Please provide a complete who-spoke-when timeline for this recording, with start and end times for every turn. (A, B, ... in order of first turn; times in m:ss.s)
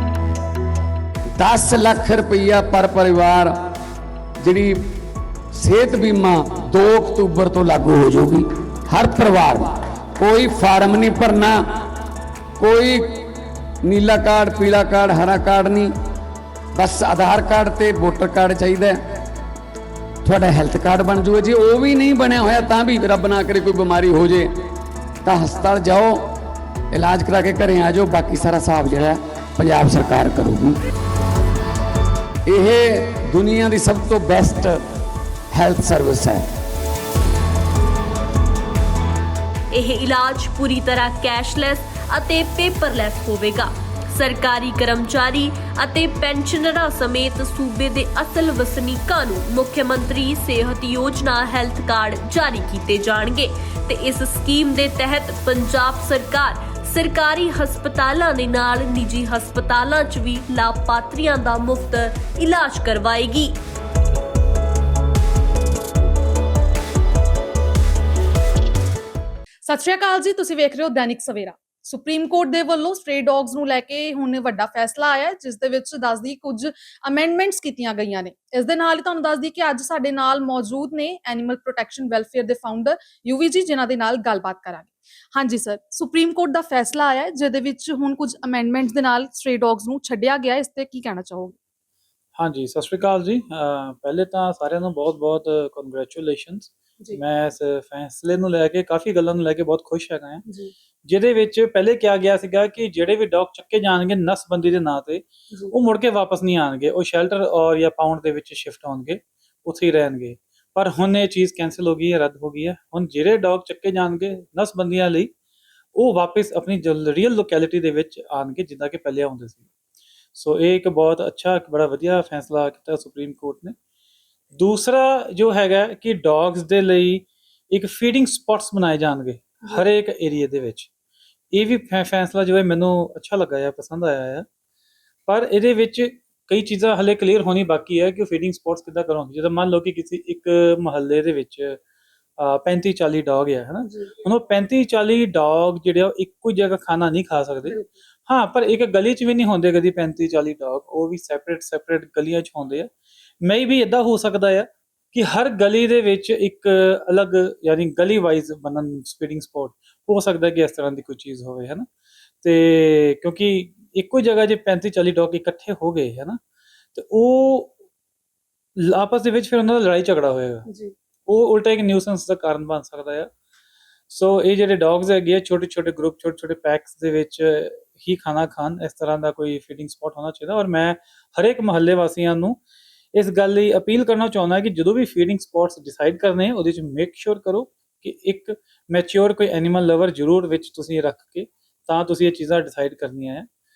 0:01.3-0:03.6 A
0:04.4-0:04.9 A
0:05.5-0:11.6 A
0:12.6-0:13.3 A
0:13.8-0:15.9 A
0:16.7-0:19.0 A
0:20.2-0:24.6 A
0:25.2-0:26.3 A
0:26.9-0:30.8 A
0:32.5-0:34.9 A
0:35.5-0:36.5 A
0:39.7-1:03.5 B
1:09.6-1:31.6 C
1:32.4-1:40.4 D
1:40.4-1:40.7 C
1:41.0-1:55.3 D
1:55.9-1:59.7 D
2:00.3-2:03.7 D
2:04.6-2:10.9 D
2:09.6-2:09.9 C
2:11.5-2:14.4 D
2:15.3-2:21.8 D
2:22.4-2:27.8 D
2:23.8-2:24.2 C
2:27.6-2:27.9 C
2:28.3-2:32.9 D
2:33.4-2:41.9 D
2:42.4-2:46.4 D
2:46.9-2:47.7 D
2:48.8-2:50.6 D
2:50.6-2:50.9 C
2:51.3-2:53.3 D
2:54.1-3:02.6 D
3:03.1-3:13.5 D